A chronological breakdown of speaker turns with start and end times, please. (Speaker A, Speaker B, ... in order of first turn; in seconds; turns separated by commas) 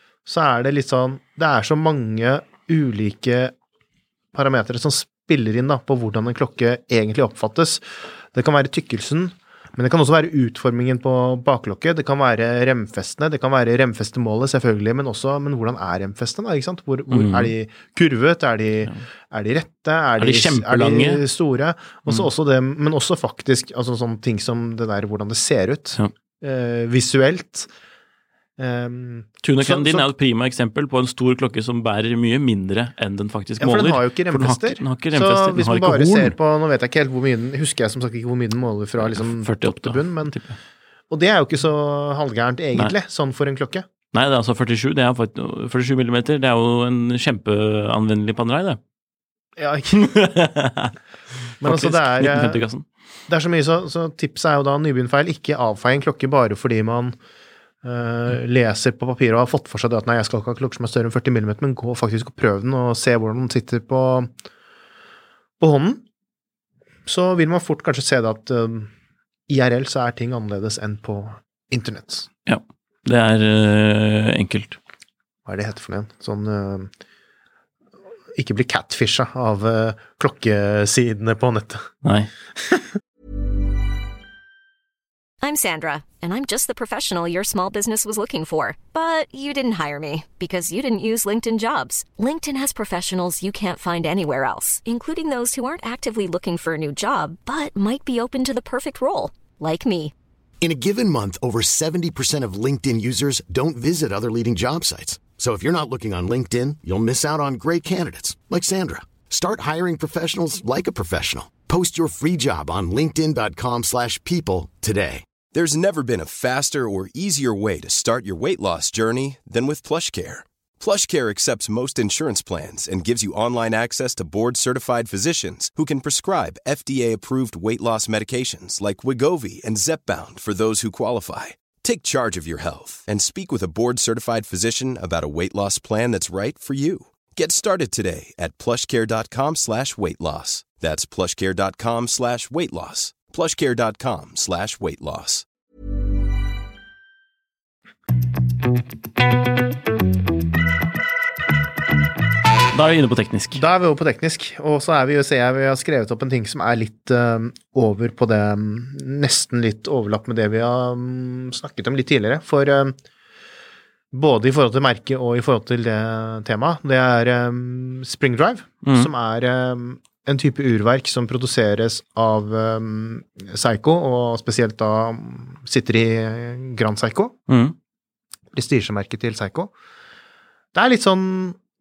Speaker A: 0.2-3.5, Speaker A: 4.3-27.7, Speaker B: 17.1-17.5, Speaker B: 20.2-21.2, Speaker A: 28.6-30.1, Speaker B: 29.4-36.3, Speaker A: 33.6-40.4, Speaker B: 39.0-40.6, Speaker A: 41.1-43.9, Speaker B: 44.1-48.8, Speaker A: 49.6-50.1, Speaker B: 49.9-50.9, Speaker B: 51.6-52.8, Speaker A: 51.6-52.6, Speaker A: 53.3-57.2, Speaker A: 57.8-64.3, Speaker A: 65.6-66.0, Speaker A: 67.0-68.9, Speaker A: 69.5-72.3, Speaker B: 72.5-74.8, Speaker A: 75.5-76.9, Speaker A: 78.3-81.9, Speaker B: 82.0-82.3, Speaker C: 85.4-100.1, Speaker D: 100.6-115.2, Speaker E: 115.5-145.4, Speaker B: 152.7-153.6, Speaker A: 153.5-163.0, Speaker A: 164.1-177.4, Speaker B: 168.8-169.1, Speaker B: 177.5-177.7, Speaker A: 178.5-179.7, Speaker A: 180.7-181.6